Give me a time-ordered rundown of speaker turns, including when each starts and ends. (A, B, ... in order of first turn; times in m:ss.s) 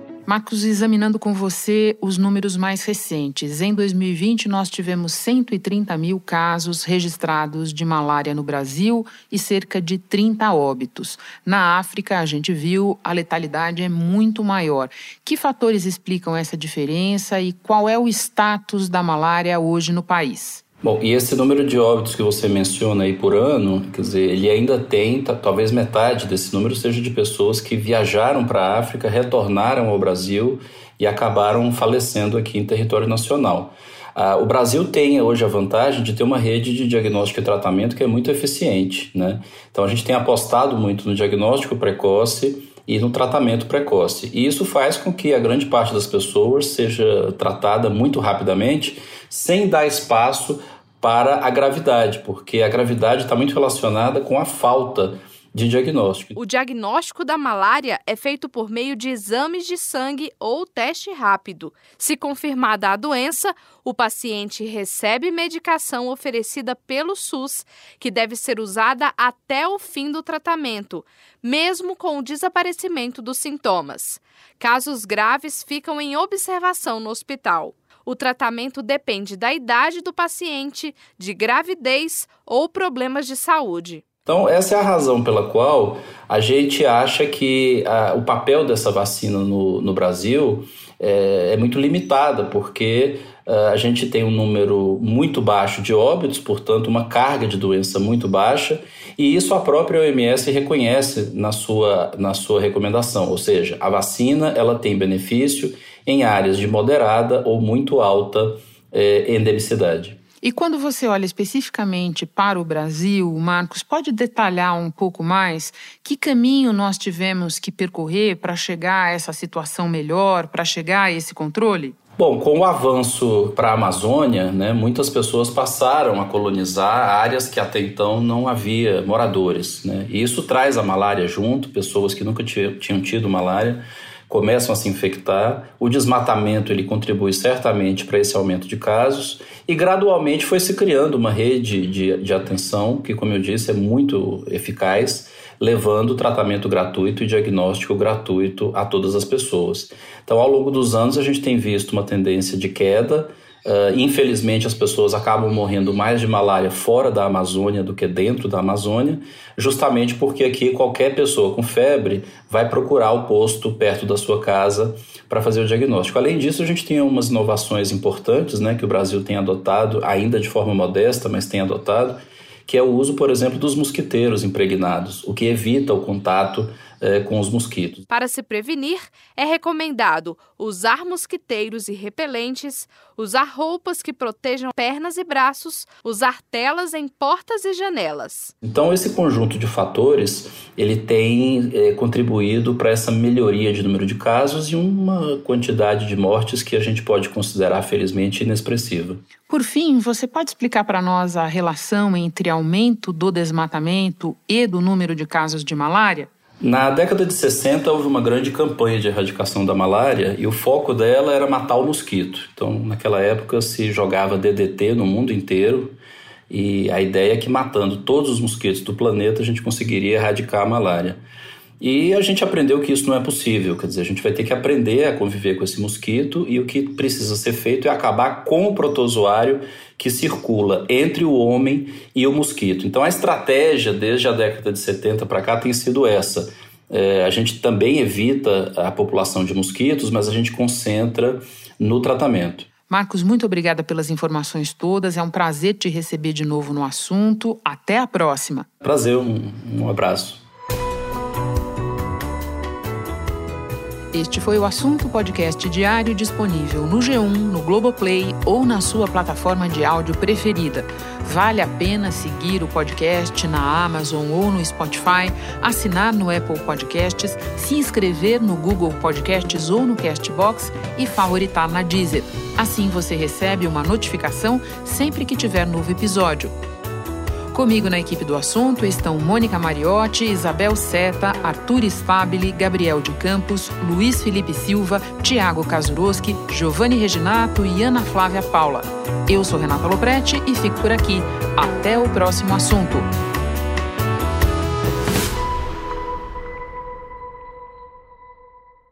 0:00.2-0:20.6 A
0:20.8-0:56.3 B
0:56.4-1:24.0 C
1:24.2-1:50.2 B
1:50.4-2:01.9 A
2:02.2-2:58.0 B
2:58.1-3:08.5 C
3:08.6-3:19.2 B
3:19.5-3:26.3 A
3:26.6-3:36.0 B
3:36.5-3:41.2 B
3:41.8-4:02.7 B
4:02.9-4:08.6 A
4:08.8-4:10.4 B
4:14.1-4:36.5 A
4:37.5-4:53.1 A